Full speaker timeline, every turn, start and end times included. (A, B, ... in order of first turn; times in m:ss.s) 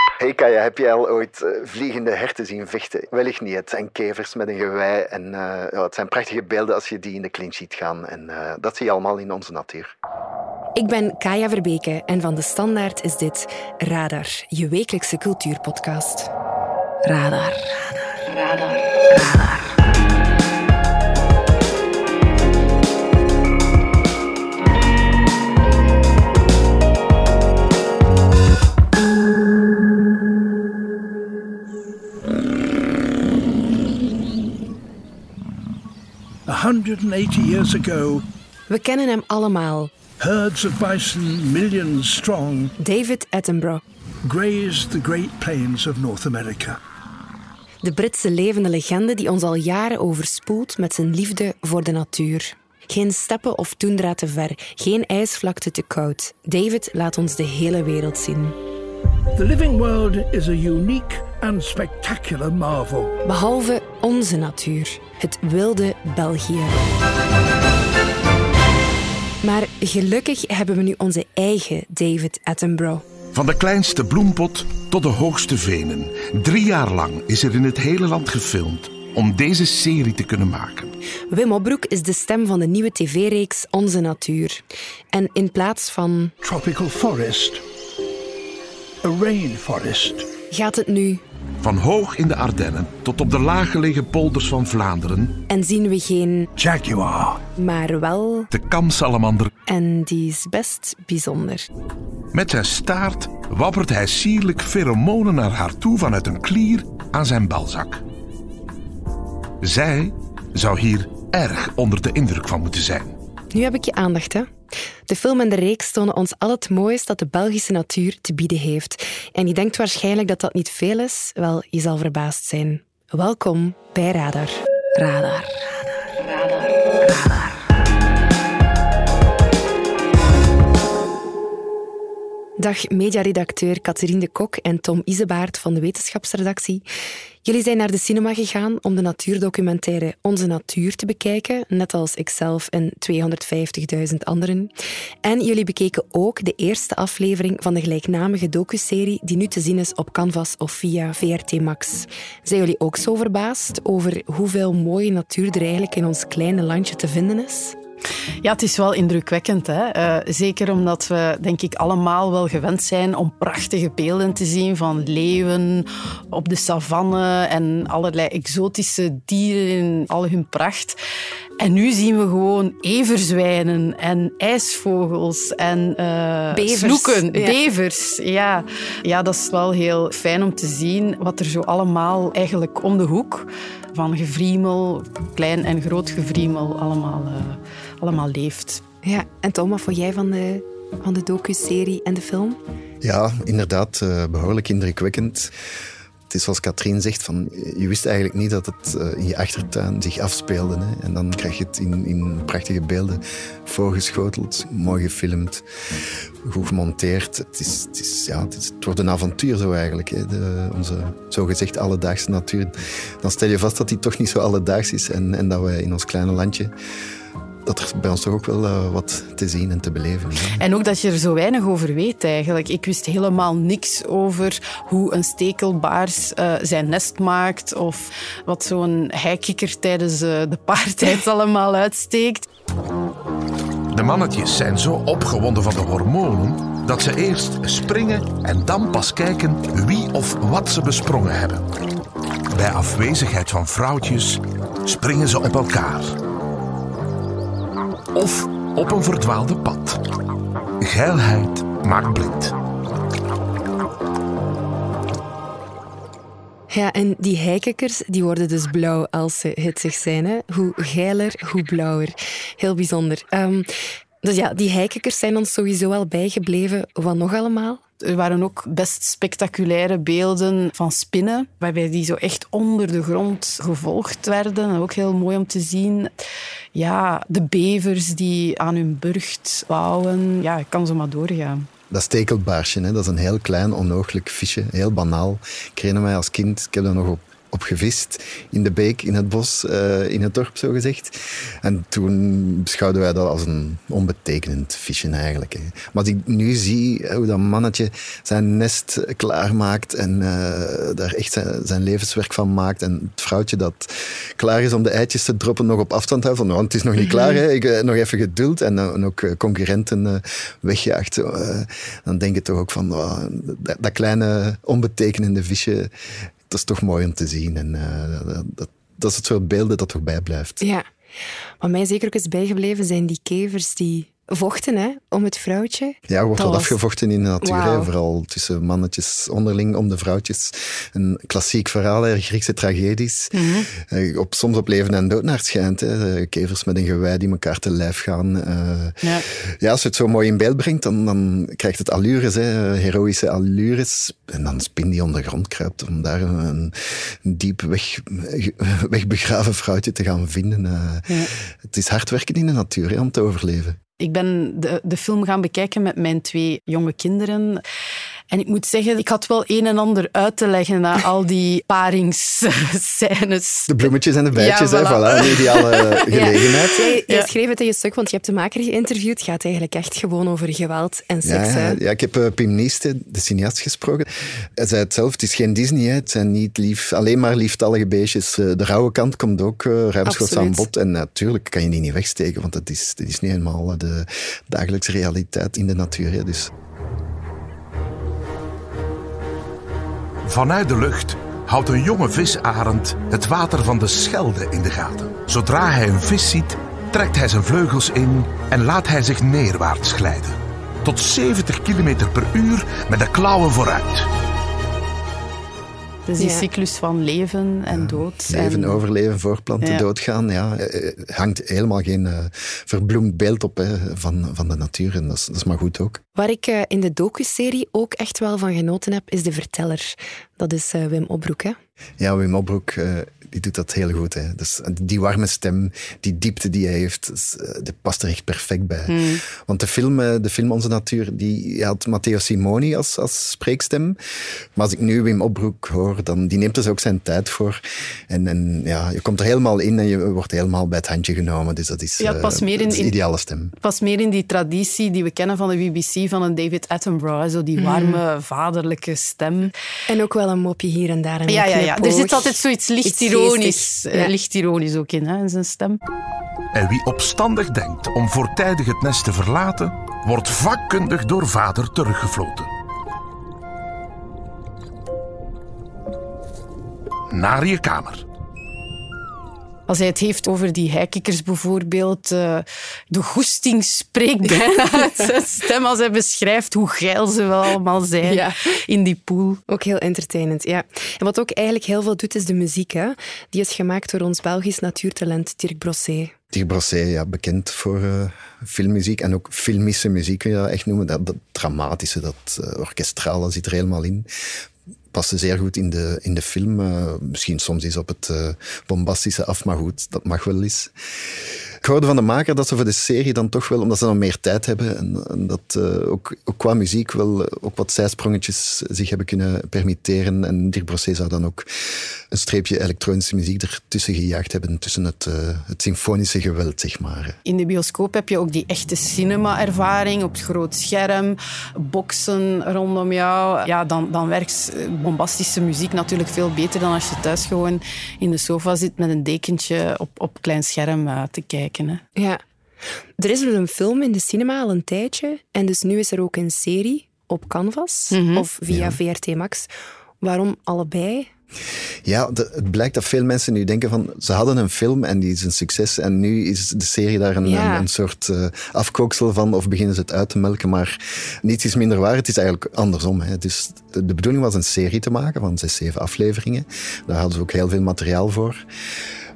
0:00.2-0:09.9 A
0:10.8-0:16.3 B
0:17.0-0:17.8 B
0:19.1-0:19.7 B
0:36.5-0:38.2 C
0:38.7-0:39.9 B
0:40.2-0:42.7 C
0:42.8-0:43.8 B
0:44.2-0:46.8 C
0:47.8-0:58.6 B
0:59.4-1:03.1 C
1:03.2-1:06.8 B
1:09.4-1:13.0 B
1:13.3-1:21.0 D
1:21.3-1:26.3 B
1:26.4-1:27.6 C
1:29.0-1:30.3 C
1:30.5-1:31.2 B
1:31.6-1:35.4 D
1:35.5-1:36.5 B
1:36.6-1:37.4 C
1:37.6-1:38.5 B
1:38.5-1:39.5 D
1:39.7-1:41.7 B
1:42.3-1:48.0 D
1:49.6-1:53.2 D
1:53.5-1:54.5 B
1:55.1-2:05.5 B
2:07.0-2:07.5 B
2:12.6-2:16.8 B
2:17.4-2:24.7 B
2:25.2-2:37.8 B
2:38.4-2:51.0 E
2:51.6-3:08.8 E
2:56.5-2:57.6 B
3:09.0-3:12.6 B
3:13.0-3:15.5 A
3:16.3-3:25.6 A
3:26.4-3:36.7 A
3:37.7-3:40.6 A
3:40.6-3:52.4 E
3:53.9-4:01.7 D
4:02.5-4:06.2 D
4:08.2-4:10.0 D
4:10.8-4:12.6 D
4:16.7-4:23.7 B
4:24.2-4:27.8 B
4:28.0-4:36.1 E
4:36.7-4:41.7 E
4:41.9-5:15.9 A
5:16.5-5:20.6 A
5:20.6-5:20.9 B
5:21.6-5:26.7 B
5:26.1-5:53.8 A
5:27.4-5:27.9 B
5:33.3-5:33.7 E
5:54.0-5:57.6 E
5:58.3-6:06.0 E
6:03.7-6:06.8 A
6:06.1-6:11.8 B
6:11.2-6:26.5 A
6:20.0-6:20.7 B
6:30.2-6:44.1 D
6:46.1-6:48.8 E
6:46.2-6:46.5 B
6:47.7-6:56.0 A
6:56.2-7:01.6 B
7:02.0-7:14.0 A
7:08.9-7:09.2 E
7:14.6-7:23.5 A
7:22.0-7:23.0 E
7:23.6-7:29.5 E
7:27.6-7:28.0 B
7:29.9-7:34.1 B
7:31.3-7:35.8 E
7:36.5-7:42.5 D
7:47.1-7:48.0 D
7:49.7-7:59.4 E
7:58.0-7:58.4 B
7:59.5-8:06.1 B
8:06.3-8:14.1 A
8:14.9-8:20.7 A
8:21.6-8:31.5 A
8:32.1-8:37.2 A
8:37.2-8:51.8 E
8:52.0-8:52.2 B
8:53.0-8:59.5 B
8:57.9-8:58.3 E
8:58.5-8:58.8 A
9:00.0-9:01.1 B
9:01.8-9:18.4 A
9:07.2-9:07.7 B